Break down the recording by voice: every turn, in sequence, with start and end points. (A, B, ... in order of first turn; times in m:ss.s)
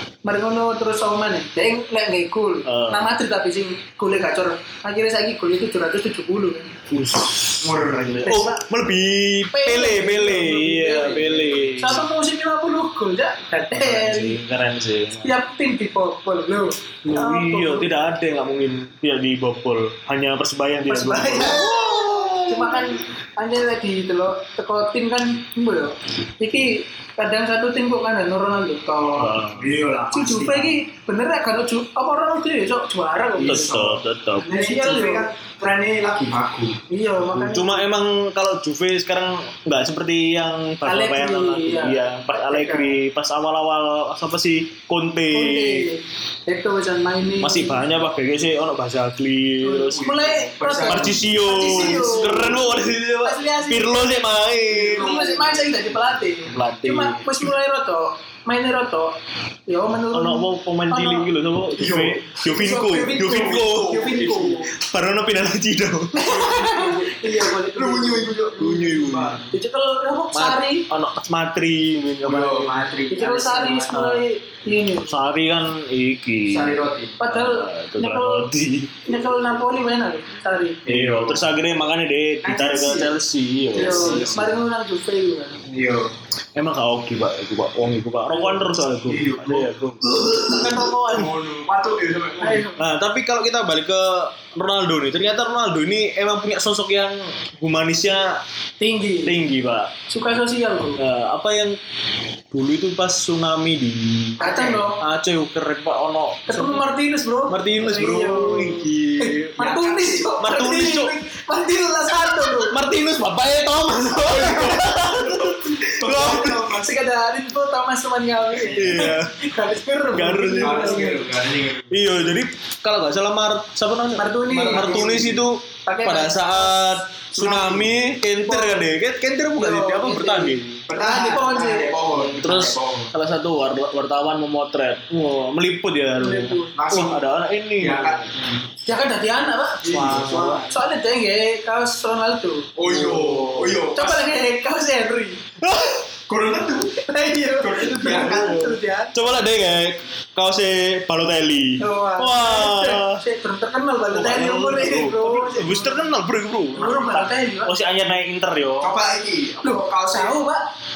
0:00.2-0:06.7 A
0:02.6-0:03.0 B
0:06.9-0:12.0 B
0:07.6-0:08.3 C
0:08.2-0:08.6 A
0:09.5-0:14.4 A
0:13.7-0:15.3 B
0:15.2-0:17.9 A
0:17.0-0:22.9 B
0:20.9-0:21.7 A
0:21.6-0:22.3 C
0:22.5-0:29.4 A
0:29.2-0:29.7 B
0:29.5-0:30.7 C
0:30.1-0:35.3 A
0:33.4-0:34.4 B
0:33.4-0:36.8 C
0:36.9-0:37.8 A
0:37.3-0:45.9 B
0:40.8-0:42.9 A
0:45.3-0:47.8 A
0:47.4-0:50.0 B
0:49.6-0:52.6 A
0:49.9-0:52.6 C
0:50.8-0:55.1 B
0:53.2-0:54.1 A
0:54.7-0:55.7 C
0:54.9-0:59.1 A
0:56.5-0:57.5 B
0:59.7-1:01.3 A
1:00.1-1:04.1 B
1:01.8-1:04.7 C
1:02.9-1:04.7 A
1:04.7-1:06.8 B
1:06.2-1:08.3 A
1:06.6-1:09.5 C
1:08.6-1:09.4 B
1:09.5-1:10.8 A
1:10.3-1:12.8 B
1:12.2-1:14.2 C
1:13.1-1:15.2 A
1:13.9-1:14.2 B
1:15.1-1:19.1 B
1:16.5-1:17.2 C
1:17.2-1:18.5 A
1:19.0-1:20.8 A
1:20.8-1:21.5 C
1:20.9-1:24.5 B
1:22.4-1:23.1 C
1:23.7-1:24.5 C
1:23.7-1:25.6 A
1:25.7-1:26.1 C
1:26.6-1:31.3 B
1:29.1-1:32.7 C
1:32.4-1:32.8 A
1:32.8-1:38.4 B
1:38.8-1:39.4 A
1:39.2-1:39.9 B
1:40.1-1:41.0 A
1:41.0-1:41.8 B
1:42.5-1:46.8 B
1:44.4-1:45.0 A
1:46.5-1:52.8 A
1:47.5-1:49.5 B
1:49.6-1:50.3 C
1:50.4-1:51.2 B
1:52.6-1:56.7 B
1:54.3-1:57.0 C
1:56.7-2:01.2 A
1:58.5-1:59.1 C
1:58.6-1:59.3 B
2:00.1-2:01.1 B
2:00.6-2:02.0 C
2:01.9-2:10.8 B
2:04.2-2:06.8 A
2:04.7-2:05.2 C
2:07.3-2:07.9 C
2:08.4-2:08.9 A
2:09.6-2:11.9 A
2:10.9-2:13.1 C
2:12.1-2:18.3 B
2:16.2-2:16.7 A
2:16.7-2:17.2 C
2:17.8-2:18.6 C
2:18.9-2:20.1 A
2:19.8-2:20.7 C
2:19.9-2:20.6 B
2:20.7-2:22.7 A
2:22.8-2:24.2 C
2:22.8-2:23.8 B
2:23.9-2:25.4 A
2:25.6-2:26.0 B
2:26.3-2:27.0 C
2:27.1-2:29.2 A
2:27.6-2:28.7 C
2:28.1-2:33.2 B
2:31.8-2:36.0 A
2:34.1-2:38.9 B
2:36.7-2:37.7 A
2:38.8-2:40.3 C
2:39.6-2:40.6 A